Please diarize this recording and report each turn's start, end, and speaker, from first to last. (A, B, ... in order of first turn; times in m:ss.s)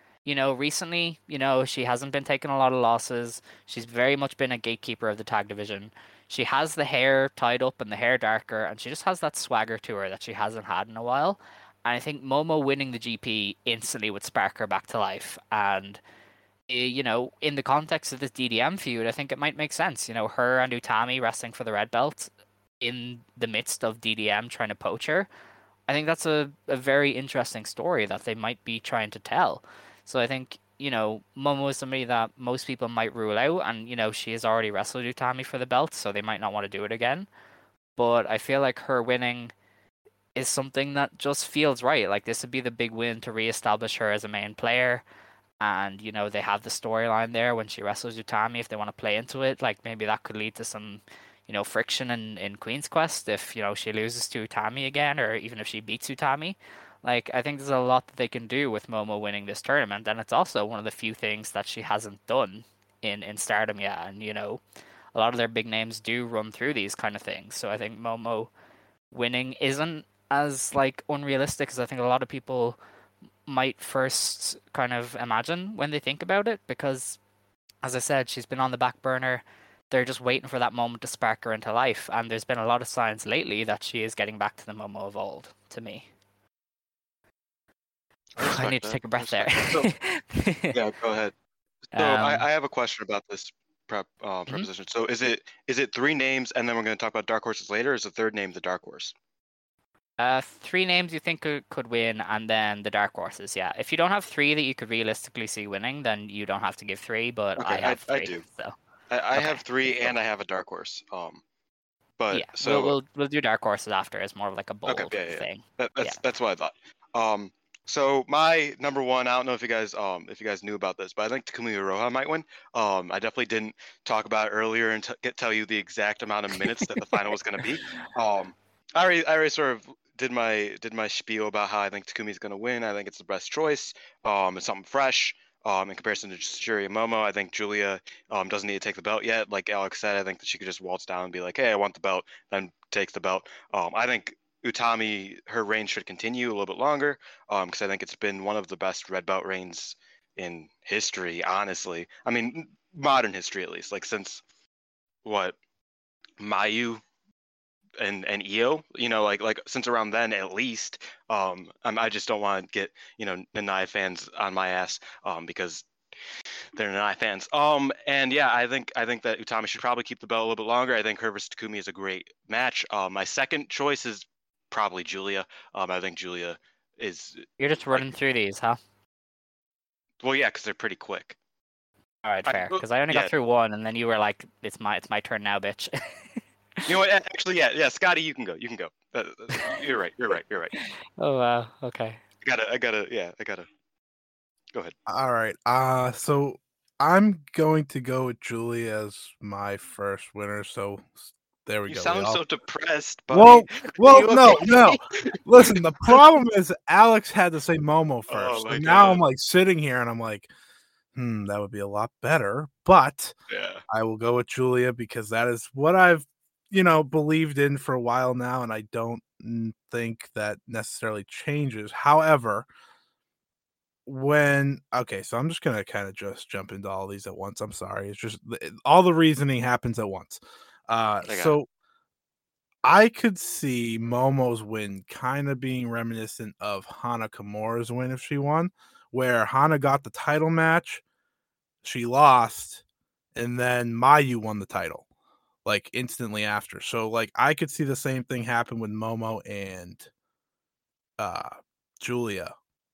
0:00.2-0:16.0 A
0:16.7-0:22.3 A
0:22.8-0:25.3 A
0:25.9-0:37.3 A
0:38.0-0:39.5 A
0:40.4-0:45.0 A
0:45.6-1:04.6 A
1:05.1-1:08.5 A
1:09.1-1:12.8 A
1:13.5-1:17.2 A
1:17.8-1:26.1 A
1:28.4-1:29.9 B
1:28.4-1:30.8 A
1:30.7-1:31.3 B
1:31.9-1:39.1 B
1:32.0-1:32.5 A
1:40.2-1:48.8 A
1:47.6-1:48.4 B
1:49.1-1:51.4 B
1:49.4-1:49.9 A
1:52.2-1:53.0 B
1:52.3-1:56.2 A
1:54.9-2:34.4 B
2:35.2-2:35.6 B
2:36.4-2:37.0 B
2:38.0-2:45.9 B
2:46.7-2:58.1 B
2:57.6-2:58.8 A
3:00.2-3:01.4 B
3:02.2-3:06.0 A
3:02.5-3:03.3 B
3:06.9-3:10.7 B
3:10.8-3:12.2 A
3:12.4-3:13.7 B
3:15.1-3:22.4 C
3:21.9-3:26.2 B
3:23.3-3:30.5 C
3:24.4-3:24.7 A
3:28.3-3:29.2 B
3:31.1-3:33.3 C
3:33.5-3:33.8 B
3:33.9-3:42.7 C
3:44.1-3:51.7 C
3:51.2-3:51.6 B
3:52.8-4:01.0 C
4:01.8-4:02.8 C
4:03.4-4:05.0 C
4:05.6-4:10.1 C
4:11.2-4:12.5 C